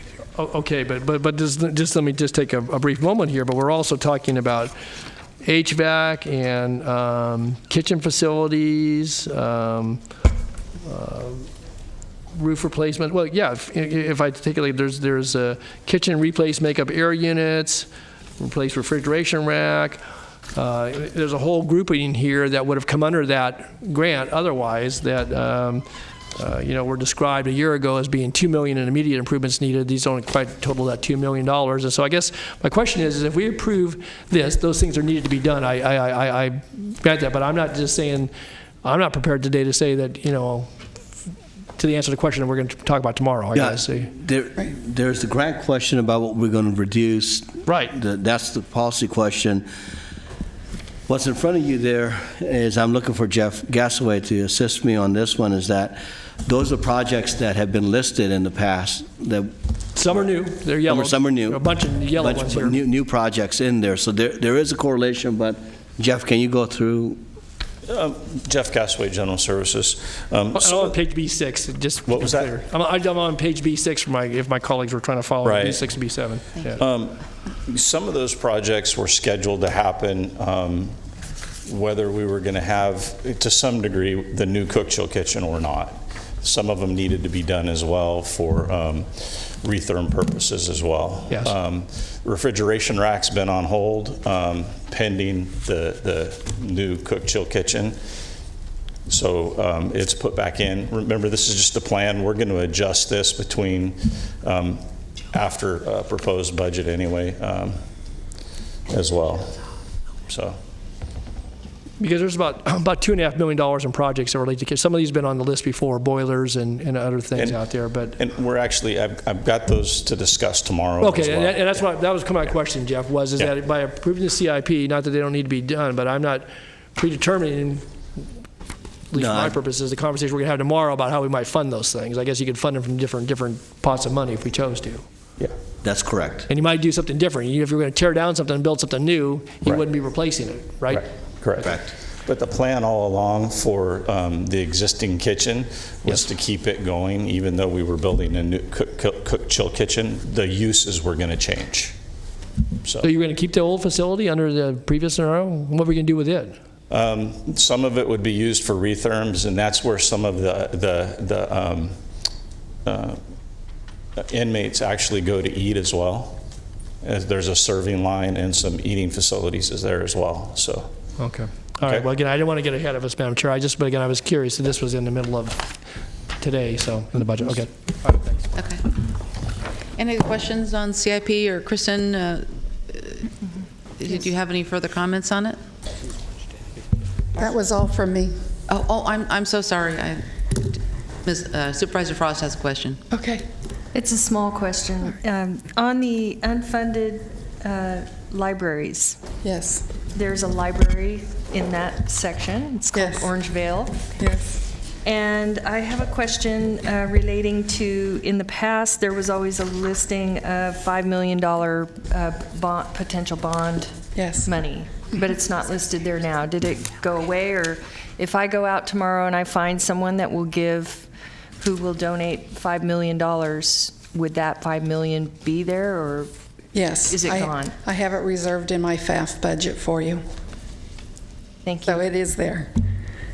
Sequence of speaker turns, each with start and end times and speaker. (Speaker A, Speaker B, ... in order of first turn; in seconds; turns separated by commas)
Speaker A: 0.4-4.7, Speaker A: 5.4-10.0, Speaker A: 10.8-11.5, Speaker A: 12.3-17.9, Speaker A: 18.4-20.0, Speaker A: 20.5-38.3, Speaker A: 38.8-40.7, Speaker A: 41.8-44.1, Speaker B: 43.5-49.7, Speaker A: 47.6-48.0, Speaker B: 51.1-59.5, Speaker A: 60.0-62.8, Speaker B: 60.8-67.2, Speaker C: 67.9-71.0, Speaker A: 70.5-76.8, Speaker C: 72.1-72.5, Speaker C: 75.4-75.8, Speaker C: 76.8-81.0, Speaker C: 81.7-98.0, Speaker A: 91.3-91.5, Speaker C: 99.1-107.8, Speaker C: 108.9-109.6, Speaker C: 110.3-110.6, Speaker A: 112.0-118.2, Speaker C: 118.2-121.8, Speaker A: 121.0-127.8, Speaker A: 129.1-135.0, Speaker B: 129.1-129.6, Speaker B: 135.8-136.5, Speaker A: 136.5-141.0, Speaker C: 140.9-151.9, Speaker B: 141.6-141.9, Speaker A: 153.0-156.6, Speaker C: 156.9-161.9, Speaker C: 162.8-163.2, Speaker C: 164.2-166.4, Speaker C: 167.0-170.9, Speaker A: 171.2-175.7, Speaker A: 176.4-177.7, Speaker D: 178.5-178.8, Speaker D: 179.9-183.3, Speaker D: 184.0-185.6, Speaker E: 187.3-188.3, Speaker D: 188.7-193.0, Speaker E: 193.1-193.4, Speaker F: 193.9-199.2, Speaker E: 199.4-199.8, Speaker F: 200.1-204.0, Speaker E: 202.9-203.3, Speaker E: 204.2-204.6, Speaker F: 205.0-221.1, Speaker E: 214.2-214.5, Speaker F: 221.6-226.3, Speaker E: 226.7-230.2, Speaker F: 227.1-227.7, Speaker F: 231.6-232.0, Speaker E: 231.8-232.7